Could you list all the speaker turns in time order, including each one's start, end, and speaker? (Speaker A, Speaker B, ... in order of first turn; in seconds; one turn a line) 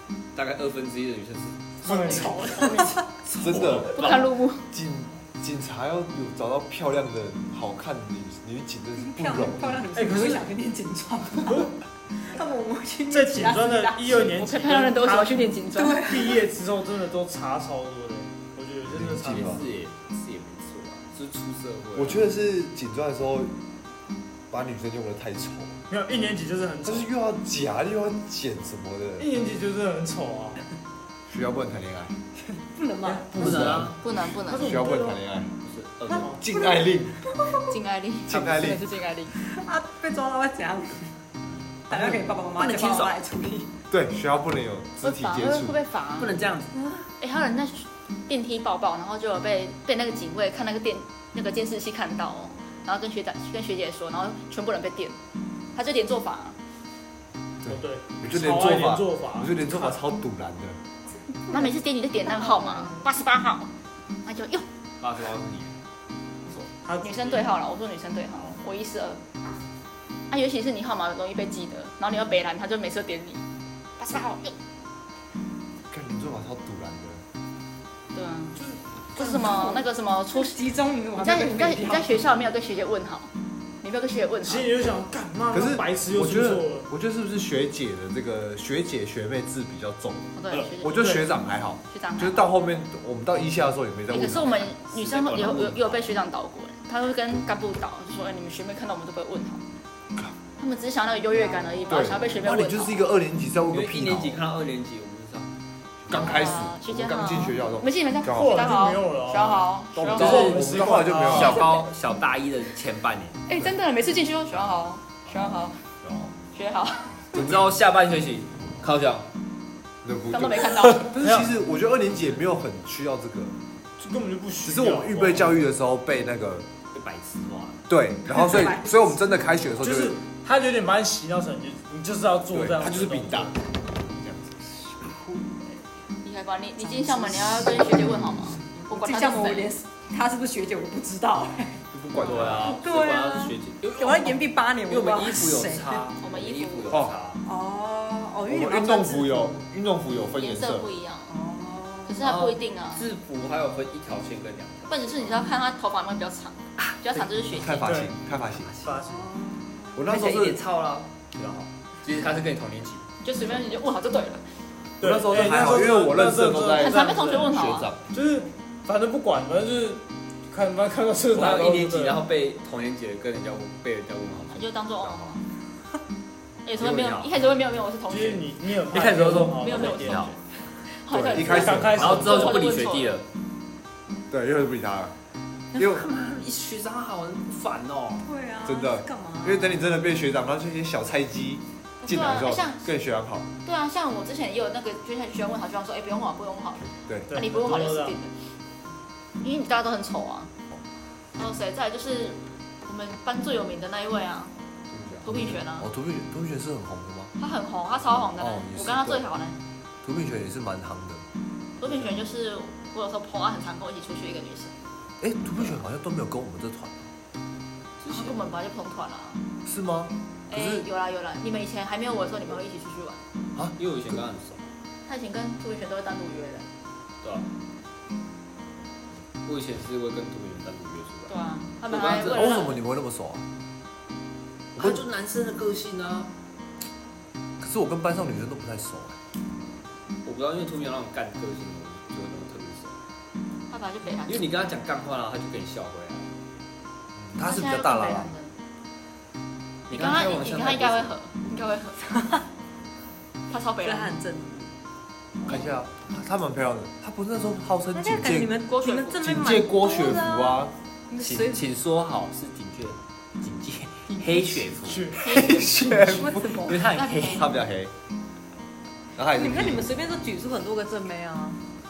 Speaker A: 0.3-4.4
Speaker B: 1.8-3.0
Speaker C: 1.9-2.3
Speaker D: 2.4-2.9
Speaker E: 3.4-4.1
Speaker D: 3.9-4.7
Speaker E: 4.7-9.9
Speaker B: 9.0-14.4
Speaker C: 9.9-10.5
Speaker C: 13.1-19.6
Speaker D: 14.4-16.0
Speaker B: 15.7-16.5
Speaker E: 18.9-19.6
Speaker A: 19.2-22.3
Speaker E: 21.9-23.5
Speaker E: 24.5-25.8
Speaker C: 25.9-27.1
Speaker E: 26.9-29.3
Speaker C: 29.2-30.6
Speaker E: 31.3-32.2
Speaker B: 32.4-33.6
Speaker C: 33.0-33.9
Speaker A: 33.4-34.0
Speaker E: 33.4-33.9
Speaker D: 34.0-34.8
Speaker C: 34.5-35.2
Speaker E: 34.5-35.5
Speaker A: 35.6-36.3
Speaker C: 36.1-36.4
Speaker B: 36.1-36.8
Speaker E: 36.3-37.2
Speaker D: 37.5-39.4
Speaker E: 38.3-38.9
Speaker B: 39.3-41.2
Speaker A: 41.6-42.0
Speaker B: 41.9-43.7
Speaker A: 42.5-43.2
Speaker E: 43.9-45.8
Speaker D: 45.0-46.4
Speaker A: 46.2-46.8
Speaker B: 46.7-47.1
Speaker D: 47.2-55.2
Speaker D: 55.8-56.6
Speaker E: 57.6-60.8
Speaker C: 57.7-59.8
Speaker B: 61.4-63.0
Speaker D: 61.5-63.7
Speaker D: 64.2-64.7
Speaker A: 65.0-65.8
Speaker C: 66.8-67.5
Speaker D: 67.0-69.2
Speaker D: 70.3-73.4
Speaker D: 74.0-74.6
Speaker E: 75.9-77.2
Speaker D: 78.1-78.6
Speaker D: 79.2-80.6
Speaker B: 79.2-82.2
Speaker D: 81.2-83.3
Speaker D: 83.8-84.7
Speaker C: 84.5-86.9
Speaker E: 85.5-94.7
Speaker D: 90.4-91.1
Speaker C: 90.6-91.2
Speaker D: 91.8-92.5
Speaker D: 94.1-99.6
Speaker A: 94.7-96.2
Speaker D: 100.6-103.1
Speaker B: 101.4-102.1
Speaker E: 101.9-104.4
Speaker A: 103.7-105.5
Speaker E: 106.1-108.5
Speaker D: 106.1-110.5
Speaker C: 108.3-111.6
Speaker A: 110.0-110.6
Speaker E: 110.1-111.6
Speaker A: 111.3-113.5
Speaker D: 111.3-111.9
Speaker D: 113.5-115.8
Speaker A: 115.2-116.3
Speaker D: 116.5-117.2
Speaker A: 117.3-119.3
Speaker E: 117.3-117.7
Speaker E: 120.0-123.5
Speaker D: 120.3-121.1
Speaker C: 121.2-121.5
Speaker C: 124.0-125.6
Speaker E: 124.7-126.7
Speaker A: 126.9-127.8
Speaker E: 127.9-130.2
Speaker B: 128.3-129.0
Speaker C: 129.8-133.5
Speaker E: 132.5-133.6
Speaker A: 134.1-134.9
Speaker B: 135.0-135.9
Speaker D: 136.2-139.8
Speaker B: 136.8-146.1
Speaker E: 141.9-142.7
Speaker A: 142.2-147.4
Speaker D: 146.2-147.1
Speaker E: 146.9-147.2
Speaker B: 147.4-149.5
Speaker E: 148.5-150.9
Speaker D: 150.4-151.3
Speaker B: 151.3-152.2
Speaker D: 152.1-153.1
Speaker A: 152.2-155.4
Speaker D: 154.9-157.8
Speaker A: 156.8-157.4
Speaker E: 157.5-158.7
Speaker C: 157.8-158.1
Speaker A: 158.3-159.1
Speaker C: 158.8-159.2
Speaker B: 159.0-160.0
Speaker E: 159.9-160.6
Speaker A: 160.1-163.6
Speaker D: 163.2-164.4
Speaker C: 165.0-167.6
Speaker E: 165.0-168.0
Speaker D: 166.8-167.9
Speaker C: 168.1-172.2
Speaker A: 171.3-174.6
Speaker D: 174.5-175.4
Speaker E: 175.0-175.4
Speaker D: 176.7-178.5
Speaker A: 176.8-177.3
Speaker C: 178.1-180.3
Speaker A: 178.9-180.4
Speaker D: 179.6-183.2
Speaker E: 181.1-182.3
Speaker C: 181.4-182.7
Speaker A: 182.0-183.3
Speaker E: 184.3-185.1
Speaker A: 185.7-188.3
Speaker E: 185.8-186.1
Speaker B: 188.2-189.8
Speaker E: 188.6-193.5
Speaker D: 192.0-192.8
Speaker D: 193.6-198.3
Speaker C: 197.3-198.2
Speaker D: 199.4-200.5
Speaker D: 201.3-204.6
Speaker E: 204.9-207.3
Speaker D: 205.2-205.9
Speaker D: 207.4-209.6
Speaker E: 208.4-209.3
Speaker E: 210.0-211.2
Speaker E: 211.8-212.2
Speaker D: 211.8-214.8
Speaker E: 215.2-217.1
Speaker A: 218.0-218.5
Speaker D: 218.1-219.4
Speaker E: 219.7-220.9
Speaker D: 220.5-223.2
Speaker E: 223.6-224.2
Speaker A: 223.8-224.7
Speaker D: 225.1-226.7
Speaker A: 227.2-227.5
Speaker A: 229.4-232.7
Speaker D: 231.3-232.8
Speaker E: 232.3-233.4
Speaker A: 234.8-236.3
Speaker E: 237.6-239.2
Speaker A: 240.2-243.0
Speaker D: 243.7-244.6
Speaker A: 244.2-246.3
Speaker E: 247.2-248.3
Speaker D: 247.4-248.6
Speaker A: 249.9-251.1
Speaker D: 249.9-252.0
Speaker B: 252.1-252.4
Speaker D: 253.5-254.2
Speaker B: 253.8-254.7
Speaker E: 255.5-258.6
Speaker B: 257.9-261.6
Speaker D: 258.7-259.2
Speaker E: 259.2-260.7
Speaker A: 261.2-265.2
Speaker B: 264.3-264.7
Speaker C: 264.8-266.2
Speaker E: 265.2-267.9
Speaker D: 265.2-265.7
Speaker B: 266.0-266.9
Speaker A: 266.6-267.5
Speaker D: 266.9-267.5
Speaker E: 269.2-269.9
Speaker B: 269.3-271.6